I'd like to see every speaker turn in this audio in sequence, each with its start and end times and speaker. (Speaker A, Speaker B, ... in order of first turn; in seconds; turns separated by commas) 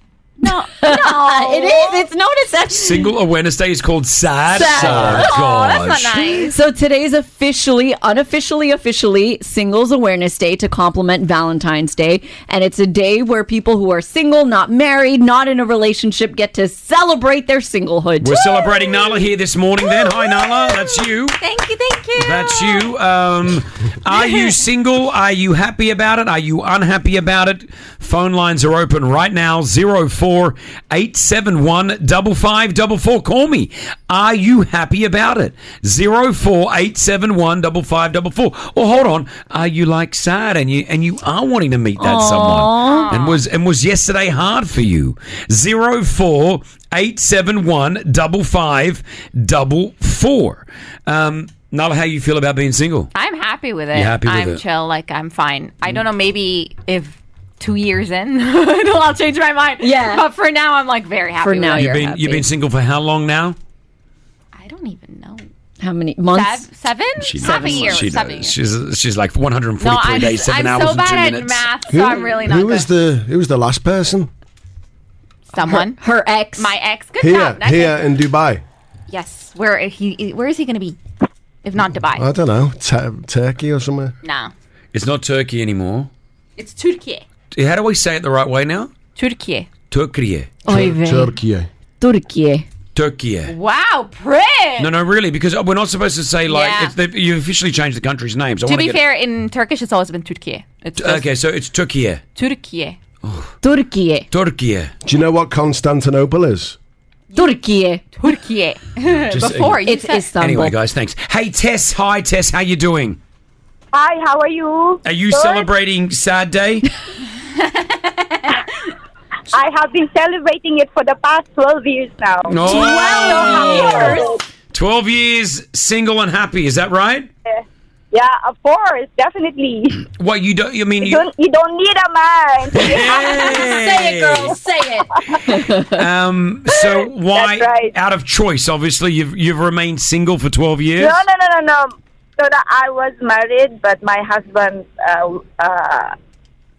Speaker A: 0.4-2.1, Speaker B: 0.8-3.1, Speaker C: 2.7-6.3, Speaker B: 4.5-5.3, Speaker A: 4.8-6.6, Speaker B: 6.5-18.4, Speaker C: 18.2-21.4, Speaker A: 18.6-19.1, Speaker A: 19.8-22.9, Speaker C: 22.1-53.1, Speaker A: 24.1-24.5, Speaker B: 42.0-43.1, Speaker A: 42.9-43.4, Speaker A: 53.1-62.0, Speaker C: 53.9-54.6, Speaker B: 59.8-60.2, Speaker B: 61.4-62.4, Speaker C: 61.7-63.6, Speaker A: 64.5-65.5, Speaker B: 65.8-66.7, Speaker A: 66.3-68.5, Speaker C: 67.2-71.7, Speaker B: 67.4-68.0, Speaker A: 69.8-72.9, Speaker D: 71.9-74.3, Speaker A: 75.5-76.0, Speaker B: 75.6-76.7, Speaker A: 76.6-78.0, Speaker D: 77.2-78.6, Speaker A: 79.1-81.0, Speaker A: 81.6-82.3, Speaker D: 82.1-84.1, Speaker A: 84.2-84.5, Speaker C: 84.9-86.1, Speaker A: 86.6-87.2, Speaker C: 87.5-88.9, Speaker A: 89.2-89.7, Speaker C: 89.9-90.5, Speaker B: 90.6-91.3, Speaker D: 90.7-91.7, Speaker B: 92.0-92.6, Speaker C: 92.9-93.5, Speaker A: 93.5-94.9, Speaker C: 94.8-99.0, Speaker A: 96.5-96.9, Speaker A: 98.6-101.2, Speaker C: 101.0-102.2, Speaker A: 102.3-103.0, Speaker C: 103.2-103.5, Speaker B: 103.6-104.3, Speaker C: 104.3-104.9, Speaker D: 105.0-106.8, Speaker B: 107.3-108.0, Speaker A: 108.2-110.3, Speaker C: 109.3-109.8, Speaker B: 109.8-110.7, Speaker C: 110.4-113.2, Speaker E: 113.9-115.7, Speaker C: 115.0-116.9, Speaker A: 117.6-118.6, Speaker E: 119.5-124.3, Speaker C: 122.5-127.3, Speaker A: 122.6-124.1, Speaker B: 122.7-124.1, Speaker E: 127.5-130.0, Speaker C: 130.1-131.3, Speaker E: 131.0-133.4, Speaker C: 132.7-134.6, Speaker B: 132.9-136.0, Speaker E: 135.3-135.6, Speaker C: 135.9-141.2, Speaker E: 137.3-137.9, Speaker E: 141.0-146.1